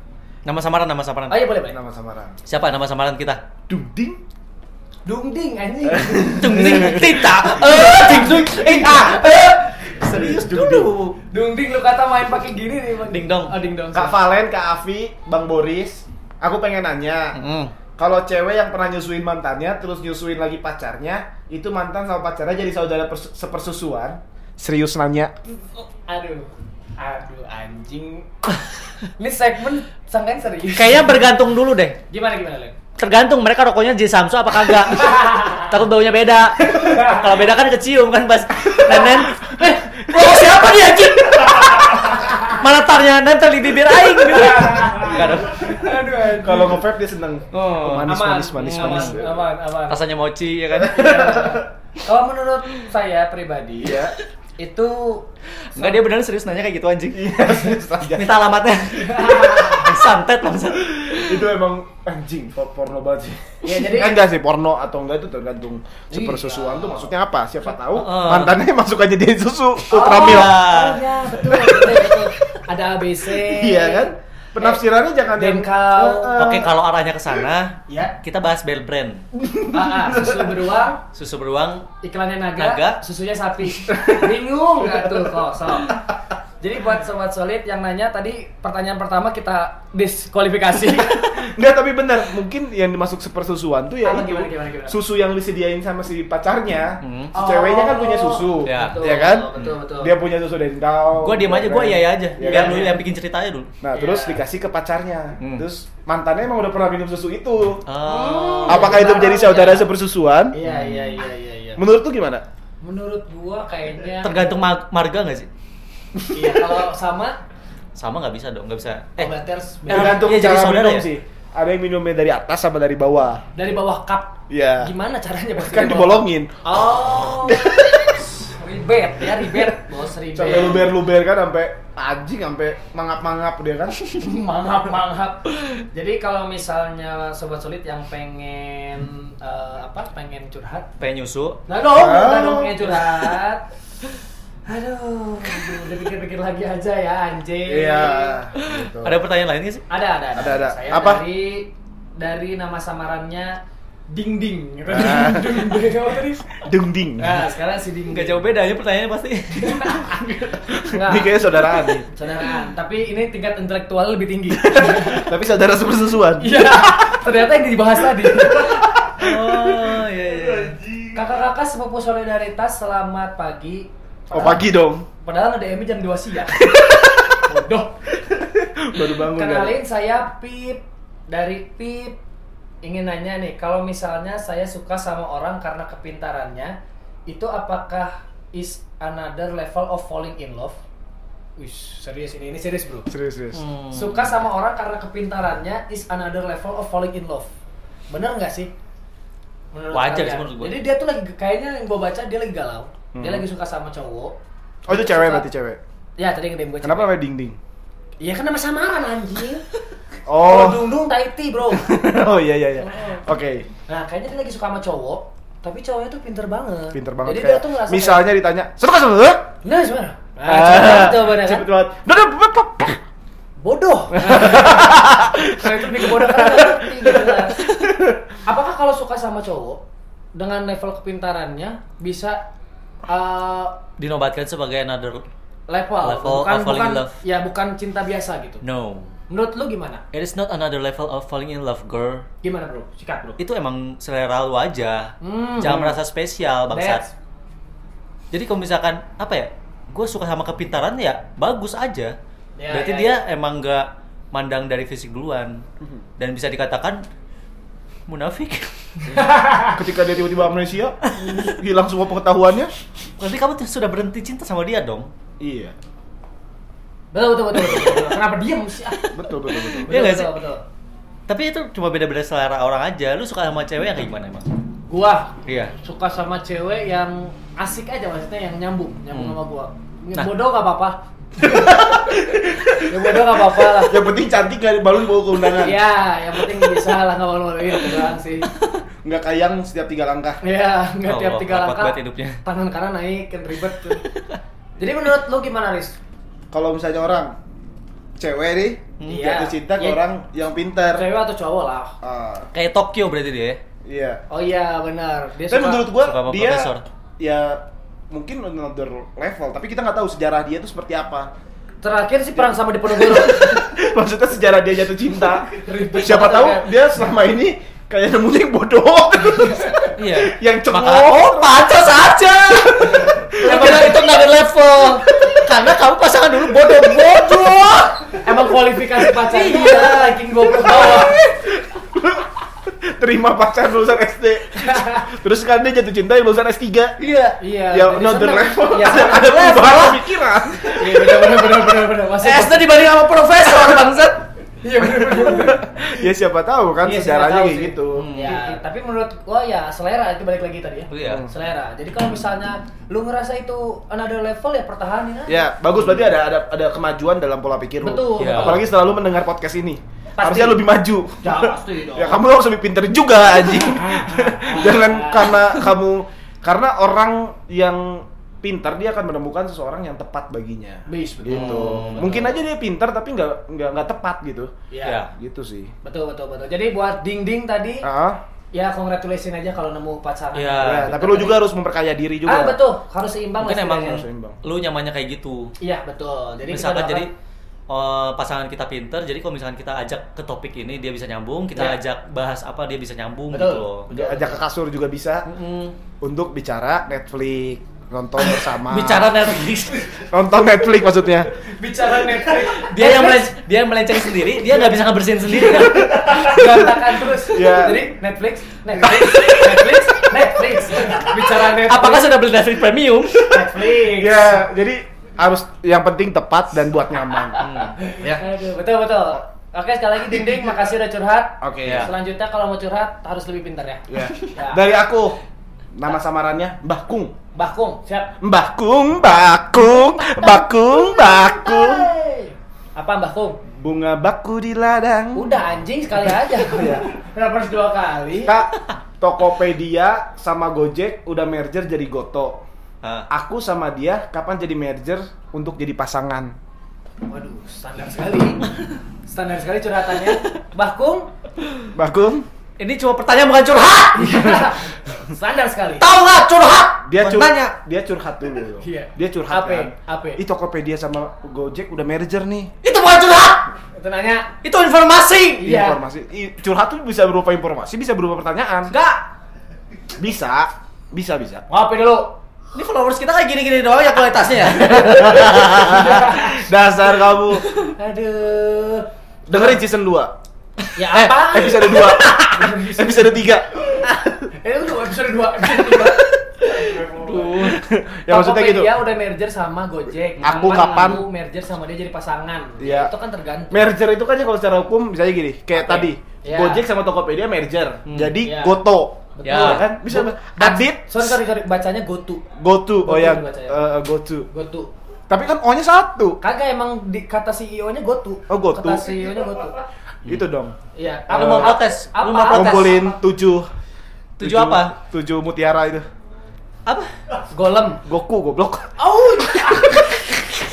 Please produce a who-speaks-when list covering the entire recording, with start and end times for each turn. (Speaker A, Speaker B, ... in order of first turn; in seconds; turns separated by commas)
Speaker A: 0.4-1.5, Speaker B: 1.3-1.8, Speaker C: 1.7-2.4, Speaker A: 2.5-3.4, Speaker C: 3.7-4.2, Speaker B: 5.0-9.6, Speaker C: 5.8-11.0, Speaker A: 6.3-11.2, Speaker B: 11.3-14.2, Speaker A: 13.1-13.5, Speaker C: 13.9-17.4, Speaker A: 17.3-17.7, Speaker C: 18.0-25.3, Speaker B: 26.1-28.3, Speaker B: 29.1-31.2, Speaker A: 30.7-32.0, Speaker B: 32.1-32.8, Speaker A: 33.0-46.1, Speaker B: 35.0-35.7, Speaker B: 36.7-37.3, Speaker C: 39.3-40.6, Speaker B: 44.2-46.8, Speaker C: 46.3-49.5, Speaker A: 47.5-49.2, Speaker B: 48.0-50.0, Speaker A: 49.9-51.5, Speaker C: 50.8-51.6, Speaker B: 50.9-54.0, Speaker C: 53.8-54.1, Speaker B: 54.6-56.0, Speaker A: 55.7-61.4, Speaker C: 57.1-58.4, Speaker B: 59.0-60.0, Speaker C: 61.1-70.6, Speaker B: 63.6-64.2, Speaker B: 66.1-67.1, Speaker A: 67.9-68.5, Speaker B: 69.9-74.8, Speaker A: 70.0-71.0, Speaker C: 71.4-72.0, Speaker C: 73.3-76.7, Speaker B: 75.3-76.5, Speaker A: 76.4-79.2, Speaker B: 77.9-78.2, Speaker C: 79.3-80.6, Speaker B: 79.7-81.0, Speaker A: 81.1-81.9, Speaker B: 82.0-86.0, Speaker A: 82.5-83.0, Speaker C: 83.8-84.3, Speaker B: 86.6-91.3, Speaker C: 91.3-103.0, Speaker B: 94.0-95.0, Speaker A: 97.0-97.3, Speaker B: 97.3-100.2, Speaker A: 98.6-99.0, Speaker A: 101.2-103.7, Speaker B: 102.4-103.0, Speaker C: 103.8-107.9, Speaker B: 103.9-104.4, Speaker A: 105.4-105.7, Speaker A: 107.8-109.1, Speaker B: 108.0-109.9, Speaker C: 108.7-110.6, Speaker B: 110.5-111.8, Speaker A: 110.6-111.2, Speaker C: 111.8-112.4, Speaker B: 112.8-114.6, Speaker A: 114.2-115.5, Speaker C: 116.2-116.6, Speaker B: 116.3-117.4, Speaker A: 118.0-119.3, Speaker B: 119.2-120.3, Speaker A: 119.9-121.1, Speaker C: 119.9-123.4, Speaker B: 123.5-130.9, Speaker C: 124.5-124.9, Speaker C: 125.6-128.3, Speaker A: 127.0-127.4, Speaker C: 129.4-129.8, Speaker C: 130.3-134.0, Speaker B: 134.1-140.9, Speaker A: 141.0-141.6, Speaker B: 141.7-143.7, Speaker C: 141.9-142.9, Speaker B: 144.7-148.4, Speaker C: 147.7-149.2, Speaker A: 148.6-149.8, Speaker B: 149.9-158.5, Speaker C: 150.3-151.2, Speaker C: 154.9-155.8, Speaker C: 156.6-157.4, Speaker A: 158.1-160.2, Speaker B: 159.6-160.3, Speaker C: 160.3-162.1, Speaker B: 160.9-165.3, Speaker C: 164.7-167.1, Speaker B: 166.4-168.8, Speaker C: 168.4-169.6, Speaker A: 169.2-170.8, Speaker C: 170.8-171.1, Speaker B: 171.1-174.6, Speaker C: 174.3-175.1, Speaker B: 175.2-176.8, Speaker B: 177.4-177.9, Speaker C: 178.3-179.8, Speaker B: 179.3-182.2, Speaker B: 182.8-190.8, Speaker B: 191.6-193.1, Speaker C: 193.1-193.6, Speaker A: 193.5-194.4, Speaker B: 193.9-197.5, Speaker B: 198.1-198.7, Speaker B: 199.7-204.3, Speaker A: 199.9-200.8, Speaker C: 203.1-203.4, Speaker C: 204.9-205.8, Speaker B: 204.9-205.5, Speaker B: 206.2-207.1, Speaker C: 206.8-207.6, Speaker B: 208.2-209.7, Speaker C: 210.3-210.8, Speaker B: 210.4-212.1, Speaker C: 211.8-213.7, Speaker B: 212.8-213.2, Speaker B: 213.9-218.3, Speaker C: 216.9-219.5, Speaker B: 219.6-221.7, Speaker C: 220.4-223.0, Speaker B: 223.6-227.6, Speaker C: 224.1-228.2, Speaker B: 228.4-229.8, Speaker B: 230.3-232.4, Speaker B: 233.1-233.8, Speaker A: 234.0-235.2, Speaker B: 235.7-238.6, Speaker A: 236.0-237.2, Speaker A: 238.6-239.1, Speaker B: 239.3-240.0, Speaker A: 240.1-242.2, Speaker B: 242.4-243.4, Speaker A: 243.4-247.0, Speaker B: 245.2-246.0, Speaker B: 246.7-247.1, Speaker A: 248.3-252.1, Speaker B: 252.6-253.2, Speaker A: 252.7-255.6, Speaker A: 256.2-257.0, Speaker A: 258.1-259.1, Speaker C: 259.1-262.7, Speaker B: 259.1-259.8, Speaker B: 261.2-261.5, Speaker A: 263.2-265.1, Speaker C: 265.4-265.7, Speaker B: 267.1-269.1, Speaker A: 267.6-268.0, Speaker C: 269.1-269.9, Speaker A: 269.7-270.4, Speaker B: 269.9-270.6, Speaker A: 271.3-274.5, Speaker B: 274.9-282.1, Speaker A: 275.4-275.7, Speaker A: 279.1-279.4, Speaker C: 281.4-285.8, Speaker B: 282.8-284.1, Speaker B: 285.6-288.5, Speaker C: 289.0-290.4, Speaker B: 290.4-294.0, Speaker A: 291.0-292.4, Speaker A: 294.0-294.4, Speaker B: 294.8-296.0, Speaker C: 296.5-297.4, Speaker C: 298.2-301.1, Speaker A: 299.0-299.3, Speaker B: 299.0-300.0, Speaker B: 300.9-301.9, Speaker C: 302.0-302.5, Speaker A: 302.5-303.6, Speaker C: 303.9-304.2, Speaker B: 304.3-305.9, Speaker C: 305.5-311.3, Speaker A: 306.0-306.8, Speaker B: 311.8-313.7, Speaker C: 312.4-321.6, Speaker B: 315.5-316.8, Speaker B: 319.2-319.9, Speaker A: 320.0-328.2, Speaker C: 322.9-324.0, Speaker B: 323.3-324.1, Speaker B: 328.2-331.2, Speaker A: 329.2-331.2, Speaker C: 331.4-337.0, Speaker B: 334.6-335.0, Speaker A: 337.0-337.4, Speaker B: 337.4-339.9, Speaker C: 337.7-341.6, Speaker A: 339.1-339.9, Speaker B: 340.7-342.7, Speaker A: 342.2-344.2, Speaker B: 344.6-345.8, Speaker C: 344.8-348.4, Speaker B: 346.8-355.5, Speaker A: 347.9-348.6, Speaker A: 350.9-351.2, Speaker C: 351.1-351.3, Speaker C: 355.3-374.5, Speaker B: 357.8-358.6, Speaker A: 358.2-358.6, Speaker B: 360.2-360.6, Speaker B: 361.2-362.2, Speaker B: 363.5-365.4, Speaker B: 370.9-372.4, Speaker A: 371.3-372.3, Speaker B: 374.7-375.0, Speaker A: 374.8-375.1, Speaker C: 375.1-375.7, Speaker B: 375.8-377.8, Speaker C: 377.8-378.2, Speaker B: 378.5-381.5, Speaker A: 380.3-381.0, Speaker C: 380.6-382.6, Speaker B: 382.2-384.0, Speaker A: 383.4-385.5, Speaker C: 383.8-384.4, Speaker B: 385.6-387.1, Speaker A: 386.5-387.1, Speaker A: 387.7-393.9, Speaker B: 393.3-394.4, Speaker C: 393.9-395.2, Speaker A: 395.2-395.8, Speaker C: 396.0-399.2, Speaker A: 398.2-400.1, Speaker C: 400.0-401.3, Speaker B: 401.5-403.3, Speaker A: 402.1-406.5, Speaker B: 405.5-412.1, Speaker C: 406.0-406.3, Speaker C: 407.2-407.9, Speaker A: 408.8-409.9, Speaker A: 410.7-413.6, Speaker B: 413.3-414.4, Speaker C: 413.8-417.4, Speaker B: 417.2-424.6, Speaker A: 417.4-417.8, Speaker C: 418.0-418.2, Speaker C: 421.4-421.9, Speaker A: 421.6-421.9, Speaker C: 423.9-425.2, Speaker C: 425.7-427.1, Speaker B: 427.3-428.1, Speaker C: 428.2-431.9, Speaker B: 429.6-433.4, Speaker C: 433.5-435.3, Speaker B: 435.1-438.3, Speaker C: 436.3-436.9, Speaker C: 438.2-442.4, Speaker A: 442.8-443.1, Speaker C: 443.1-446.3, Speaker B: 447.1-448.4, Speaker B: 449.1-451.1, Speaker C: 451.7-452.2, Speaker A: 452.6-454.5, Speaker B: 453.9-455.9, Speaker A: 455.8-457.6, Speaker C: 456.8-462.5, Speaker B: 458.6-460.2, Speaker A: 462.6-463.5, Speaker B: 463.7-464.3, Speaker A: 464.4-465.5, Speaker B: 465.4-465.8, Speaker C: 465.4-468.7, Speaker A: 468.7-469.0, Speaker C: 470.0-471.4, Speaker B: 471.5-472.2, Speaker A: 472.5-476.1, Speaker C: 474.7-477.5, Speaker B: 475.6-476.4, Speaker B: 477.6-479.5, Speaker C: 479.3-480.1, Speaker B: 480.7-483.4, Speaker C: 480.9-484.3, Speaker B: 484.3-486.1, Speaker A: 486.5-487.6, Speaker C: 486.5-488.7, Speaker B: 488.1-493.7, Speaker C: 490.2-491.0, Speaker C: 492.6-492.9, Speaker C: 493.5-501.2, Speaker B: 495.6-496.6, Speaker A: 497.9-498.1, Speaker B: 498.2-498.6, Speaker B: 499.1-502.3, Speaker A: 499.2-499.6, Speaker C: 502.4-504.3, Speaker B: 502.8-503.6, Speaker B: 504.3-504.7, Speaker C: 505.1-506.2, Speaker B: 506.2-509.6, Speaker C: 508.3-508.9, Speaker C: 510.1-510.6, Speaker B: 510.7-513.0, Speaker C: 511.1-511.6, Speaker A: 511.1-512.9, Speaker C: 512.3-513.5, Speaker A: 514.2-514.7, Speaker C: 514.2-515.9, Speaker A: 516.6-516.9, Speaker B: 517.3-517.8, Speaker C: 517.8-519.9, Speaker B: 518.8-520.2